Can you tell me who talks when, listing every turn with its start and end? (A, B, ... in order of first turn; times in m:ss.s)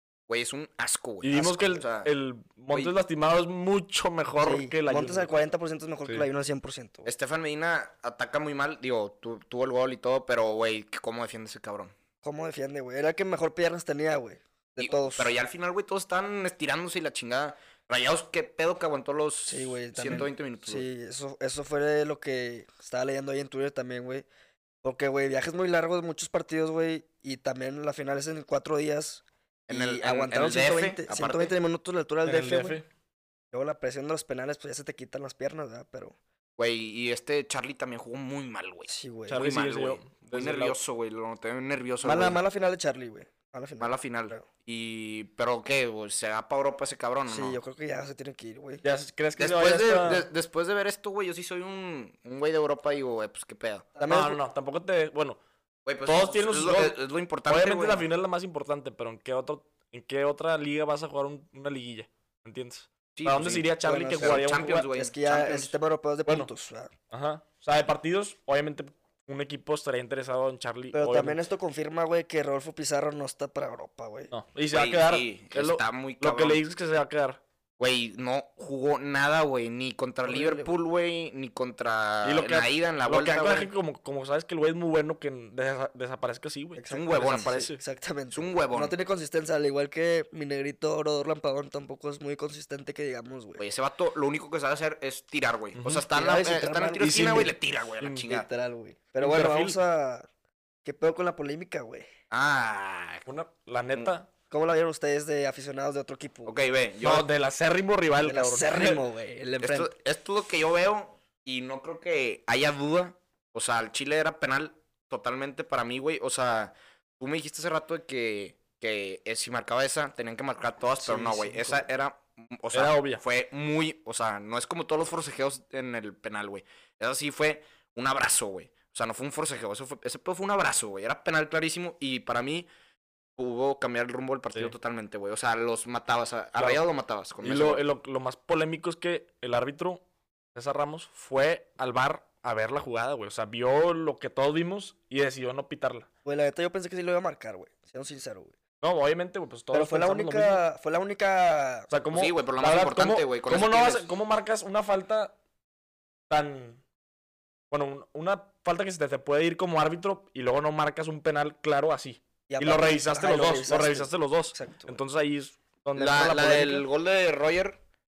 0:00.3-0:02.1 A
0:01.2-0:05.3 B
0:01.3-0:01.8 C
0:04.4-0:07.1 C
0:07.0-0:11.9 A
0:12.2-0:15.3 C
0:14.8-0:20.8 A
0:19.5-0:24.3 C
0:24.8-0:32.8 C
0:29.7-0:31.5 A
0:32.2-0:32.8 B
0:33.5-0:36.2 C
0:36.6-0:42.4 A
0:38.9-0:39.4 C
0:39.3-0:40.8 B
0:42.0-0:44.5 C
0:43.8-0:47.6 A
0:47.3-0:48.8 C
0:48.8-0:50.3 B
0:49.4-0:53.9 A
0:54.0-0:54.4 C
0:54.1-0:55.4 B
0:55.9-0:58.1 A
0:56.0-1:04.9 B
1:03.2-1:05.8 A
1:03.8-1:06.9 C
1:07.1-1:11.4 B
1:10.9-1:14.3 C
1:14.3-1:17.4 B
1:14.7-1:16.6 A
1:17.8-1:23.7 A
1:20.2-1:20.7 C
1:22.2-1:27.8 B
1:26.8-1:33.6 C
1:26.9-1:27.6 A
1:28.3-1:28.9 A
1:33.6-1:38.5 A
1:35.8-1:36.0 B
1:36.1-1:37.6 C
1:37.0-1:38.3 B
1:38.3-1:40.3 C
1:39.2-1:39.8 B
1:40.8-1:42.1 C
1:42.3-1:43.3 A
1:43.3-1:44.3 B
1:44.5-1:46.6 C
1:46.5-1:47.3 A
1:47.0-1:49.0 B
1:48.2-1:49.9 C
1:49.6-2:12.7 A
2:01.0-2:01.9 C
2:02.7-2:03.2 B
2:13.4-2:17.8 A
2:16.6-2:16.8 B
2:17.4-2:26.1 B
2:26.2-2:28.6 C
2:28.8-2:30.6 B
2:29.7-2:31.9 C
2:31.9-2:35.4 B
2:32.1-2:34.1 A
2:36.3-2:36.8 B
2:37.7-2:46.8 B
2:42.5-2:45.0 C
2:46.0-2:47.8 A